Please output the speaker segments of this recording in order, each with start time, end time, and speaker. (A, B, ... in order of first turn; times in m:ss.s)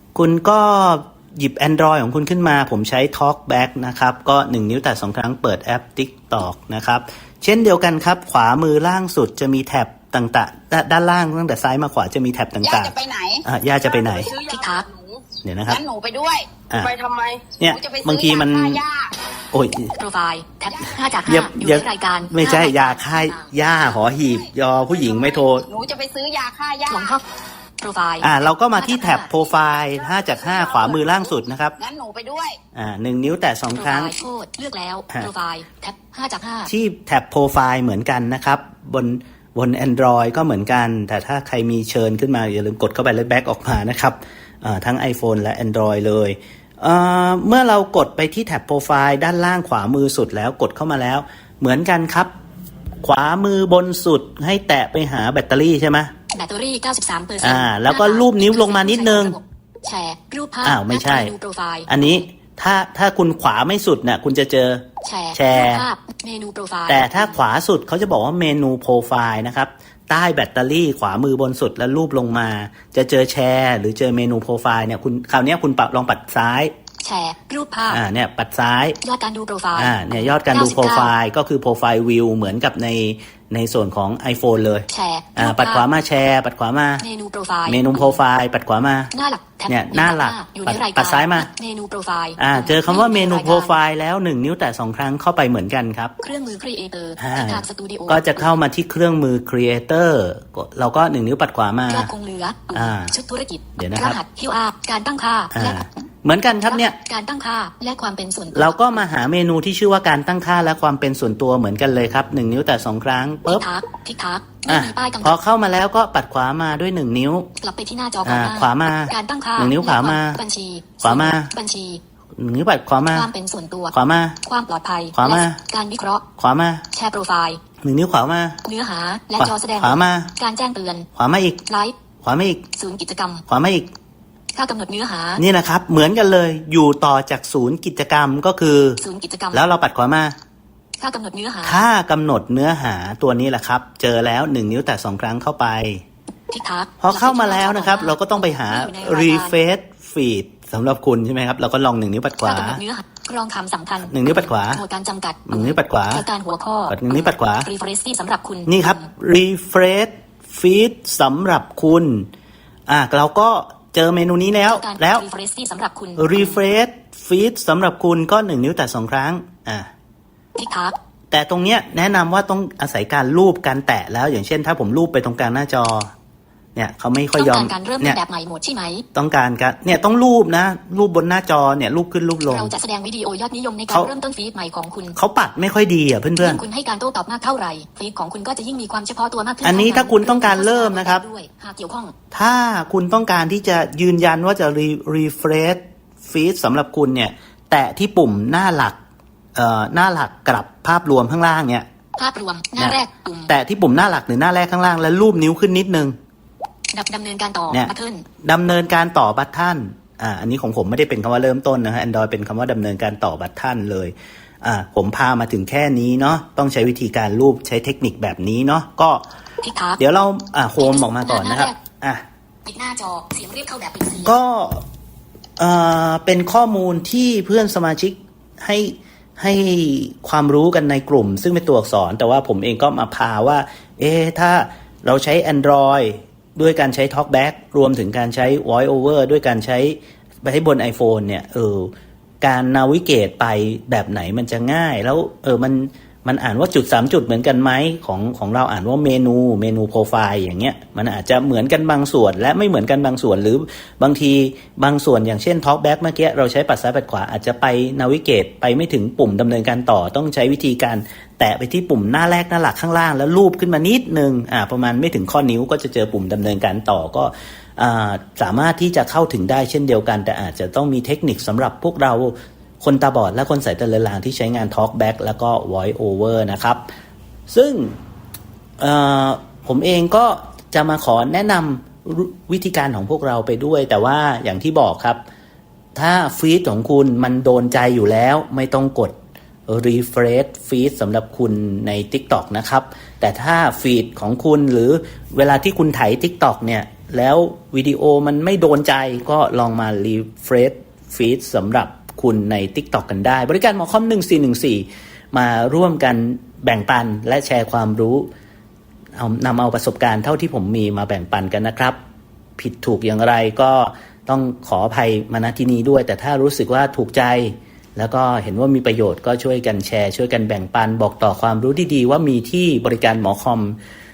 0:00.1-0:14.3 A
0:12.6-0:19.1 B
0:14.3-0:14.8 C
0:15.4-0:15.8 A
0:17.6-0:18.8 A
0:19.5-0:19.9 A
0:20.0-0:23.5 C
0:20.7-0:21.0 B
0:21.2-0:25.7 A
0:24.0-0:27.2 B
0:26.9-0:27.2 C
0:27.8-0:29.3 C
0:28.2-0:31.8 A
0:30.1-0:31.2 B
0:31.8-0:32.6 B
0:32.7-0:34.2 A
0:33.7-0:36.7 C
0:36.7-0:52.3 A
0:53.0-0:56.1 A
0:56.3-1:02.1 C
0:57.4-0:59.4 A
1:00.6-1:01.3 A
1:01.9-1:05.9 A
1:05.0-1:07.4 C
1:06.9-1:16.7 A
1:17.0-1:18.0 C
1:17.9-1:19.0 A
1:19.0-1:21.1 C
1:19.7-1:27.0 A
1:24.9-1:25.8 C
1:27.0-1:28.2 C
1:27.6-1:29.1 A
1:29.1-1:33.8 C
1:29.7-1:31.5 A
1:32.4-1:36.1 A
1:36.2-1:38.4 C
1:37.2-1:42.1 A
1:41.9-1:45.8 C
1:42.7-1:43.1 A
1:43.8-1:44.2 A
1:45.5-1:47.0 A
1:46.6-1:49.0 C
1:48.5-1:53.7 A
1:53.5-1:55.4 C
1:54.7-1:57.5 A
1:57.6-2:02.0 C
1:58.2-2:00.4 A
2:01.0-2:01.5 A
2:02.4-2:03.3 A
2:03.0-2:06.3 C
2:03.9-2:04.4 A
2:05.1-2:05.6 A
2:06.4-2:06.8 A
2:06.9-2:07.6 C
2:07.8-2:08.6 A
2:08.6-2:11.1 C
2:09.4-2:10.3 A
2:11.2-2:11.6 A
2:11.6-2:11.9 C
2:12.2-2:12.6 A
2:12.7-2:13.4 C
2:13.5-2:13.9 A
2:14.5-2:15.4 C
2:15.4-2:19.0 A
2:19.0-2:19.6 C
2:19.5-2:20.4 A
2:21.0-2:21.8 C
2:21.6-2:26.0 A
2:26.5-2:29.6 C
2:27.0-2:32.8 A
2:32.4-2:39.0 C
2:34.0-2:34.8 A
2:35.5-2:36.2 A
2:36.9-2:37.7 A
2:38.7-2:42.3 A
2:42.9-2:45.2 A
2:44.6-2:46.6 C
2:46.2-2:49.9 A
2:50.5-2:51.0 C
2:51.3-2:56.1 A
2:56.7-2:58.2 A
2:57.3-2:59.0 C
2:59.1-3:02.7 A
3:02.5-3:05.2 C
3:05.1-3:06.6 A
3:06.4-3:12.1 C
3:09.6-3:11.2 A
3:12.3-3:19.0 A
3:19.5-3:21.9 A
3:22.2-3:23.5 C
3:22.8-3:26.2 A
3:26.9-3:28.3 C
3:28.4-3:39.2 A
3:39.6-3:40.0 C
3:40.0-3:42.2 A
3:40.8-3:41.8 C
3:42.6-3:44.4 C
3:44.2-3:44.8 A
3:45.6-4:36.8 A
4:37.5-4:38.0 A
4:38.8-4:45.2 A
4:45.9-4:49.2 A
4:49.7-5:08.3 A
5:09.2-5:12.0 A
5:12.6-5:23.8 A